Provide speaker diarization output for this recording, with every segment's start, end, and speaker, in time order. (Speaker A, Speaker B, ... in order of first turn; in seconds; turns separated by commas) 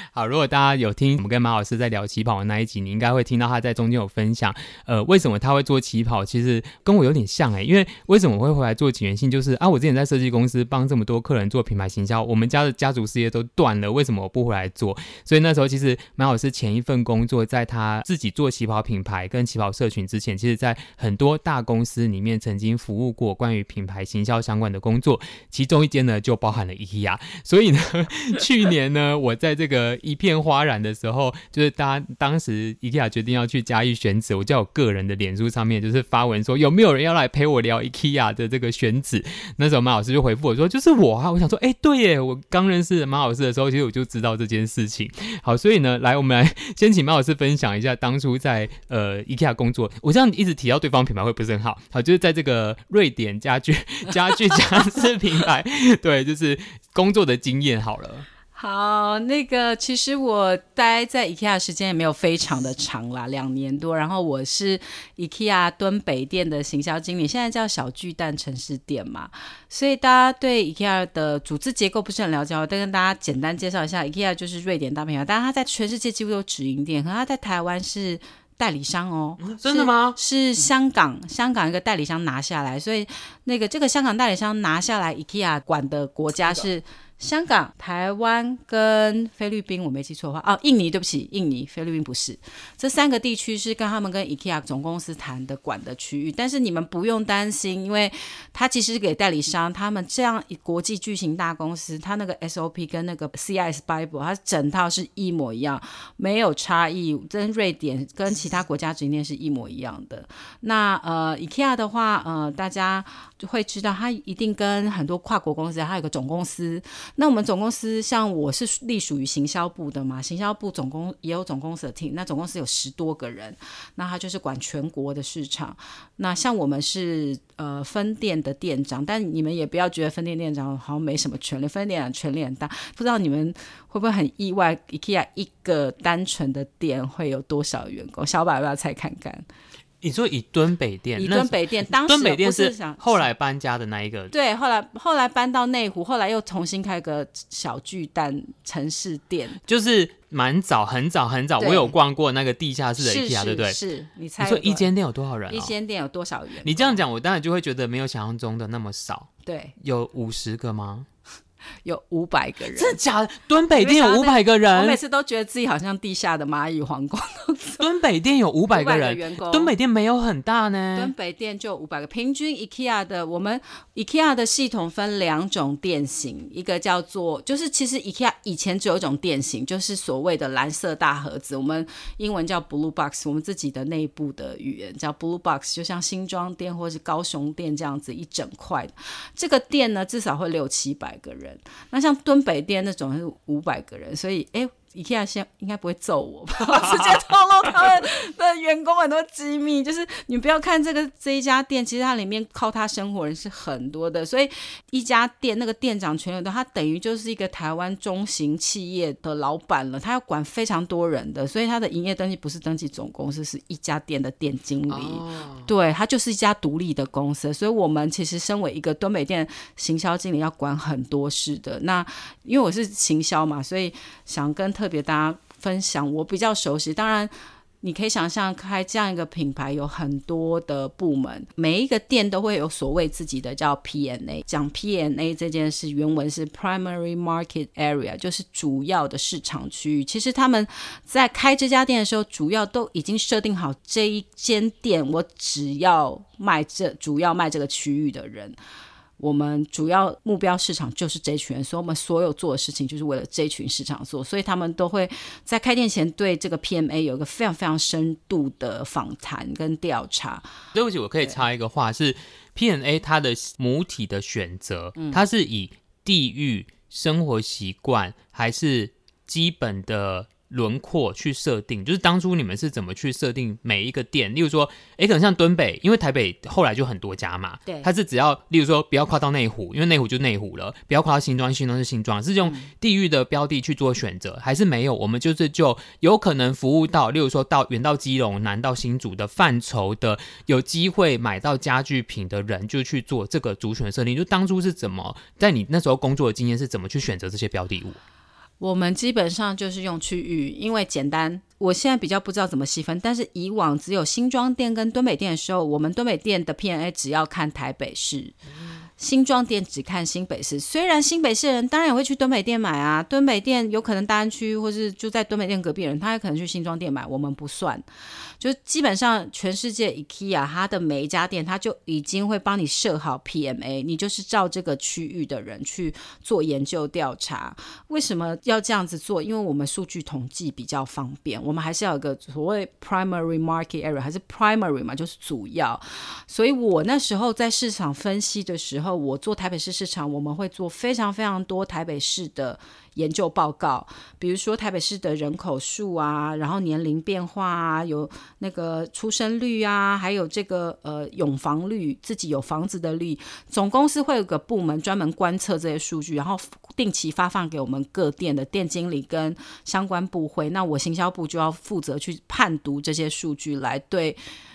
Speaker A: 0.1-58.3, Speaker B: 58.5-139.4, Speaker A: 79.4-80.2, Speaker A: 140.0-144.3, Speaker B: 141.2-143.3, Speaker B: 144.3-149.6, Speaker A: 149.7-153.8, Speaker B: 151.6-152.0, Speaker B: 153.0-154.9, Speaker A: 154.4-155.7, Speaker B: 155.5-157.0, Speaker A: 156.6-161.1, Speaker B: 159.4-159.8, Speaker B: 161.8-163.0, Speaker A: 162.7-165.0, Speaker B: 163.8-167.8, Speaker A: 167.8-171.1, Speaker B: 168.7-169.7, Speaker B: 170.9-248.6, Speaker A: 214.9-215.7, Speaker B: 249.2-260.5, Speaker A: 260.8-298.0, Speaker B: 265.0-265.2, Speaker B: 282.4-282.7, Speaker B: 298.6-308.4, Speaker B: 309.0-317.8, Speaker B: 318.4-364.2